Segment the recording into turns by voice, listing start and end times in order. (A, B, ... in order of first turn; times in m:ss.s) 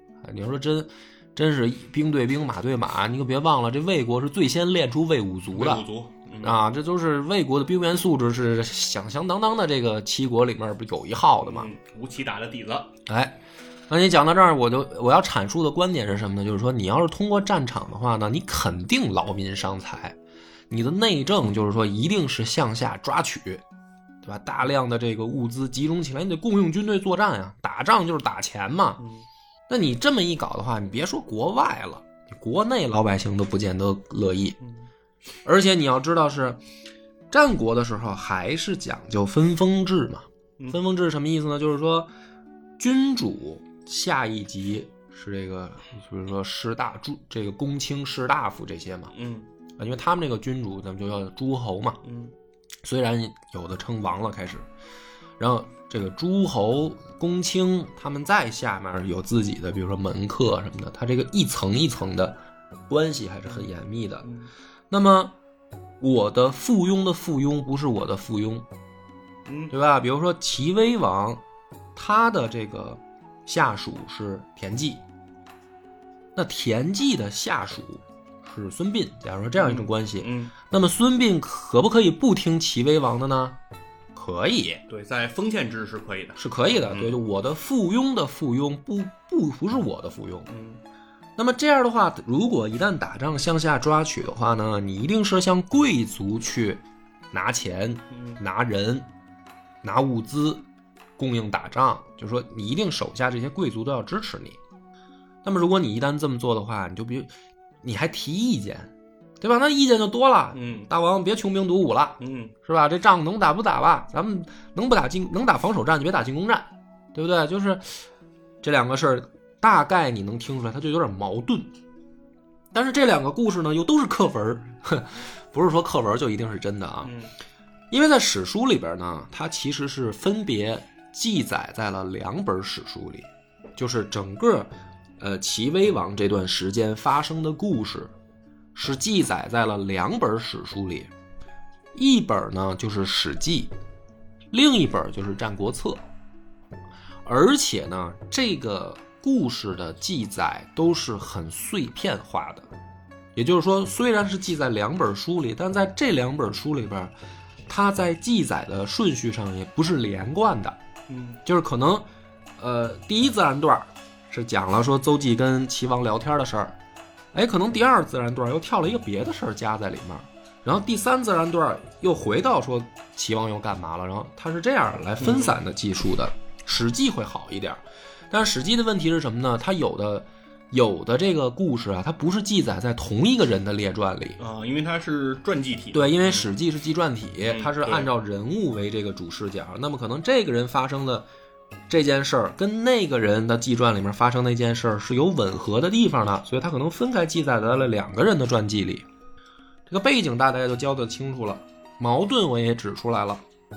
0:00.2-0:05.8 A
0:05.5-0:06.6 B
0:06.4-0:11.7 A
0:11.4-0:12.9 B
0:13.1-0:13.4 A
0:13.9-0:20.2 A
0:20.7-0:23.6 A
0:24.2-0:29.0 A
0:29.0-0:29.2 B
0:29.7-0:34.6 A
0:34.6-0:34.9 B
0:35.4-0:36.6 A
0:37.3-0:42.1 A
0:42.8-0:49.1 A
0:49.1-0:49.5 B
0:49.8-0:52.0 A
0:52.0-0:52.3 B
0:52.8-0:54.7 A
0:55.4-1:04.3 A
1:04.2-1:04.5 B
1:04.9-1:05.3 A
1:06.0-1:08.6 A
1:09.4-1:09.7 B
1:09.7-1:11.4 A
1:11.9-1:15.0 A
1:16.3-1:23.6 A
1:19.6-1:20.5 B
1:24.1-1:24.8 A
1:24.9-1:27.2 B
1:26.4-1:30.5 A
1:30.5-1:30.8 B
1:31.4-1:39.1 A
1:38.1-1:38.4 B
1:39.8-1:40.6 A
1:41.2-1:44.6 A
1:45.4-1:58.0 A
1:50.5-1:50.9 B
1:52.2-1:52.5 B
1:58.6-2:01.7 A
2:02.7-2:07.1 A
2:07.0-2:07.3 B
2:07.9-2:18.1 A
2:18.7-2:21.1 A
2:21.9-2:23.7 A
2:24.5-2:26.0 A
2:27.2-2:32.7 A
2:33.3-2:37.1 A
2:37.7-2:40.8 A
2:41.1-2:41.4 B
2:41.4-2:42.1 A
2:42.6-2:46.8 A
2:47.3-3:04.4 A
2:55.2-2:55.6 B
3:04.4-3:06.5 B
3:05.9-3:11.3 A
3:07.4-3:08.1 B
3:11.9-3:19.0 A
3:19.9-3:23.4 A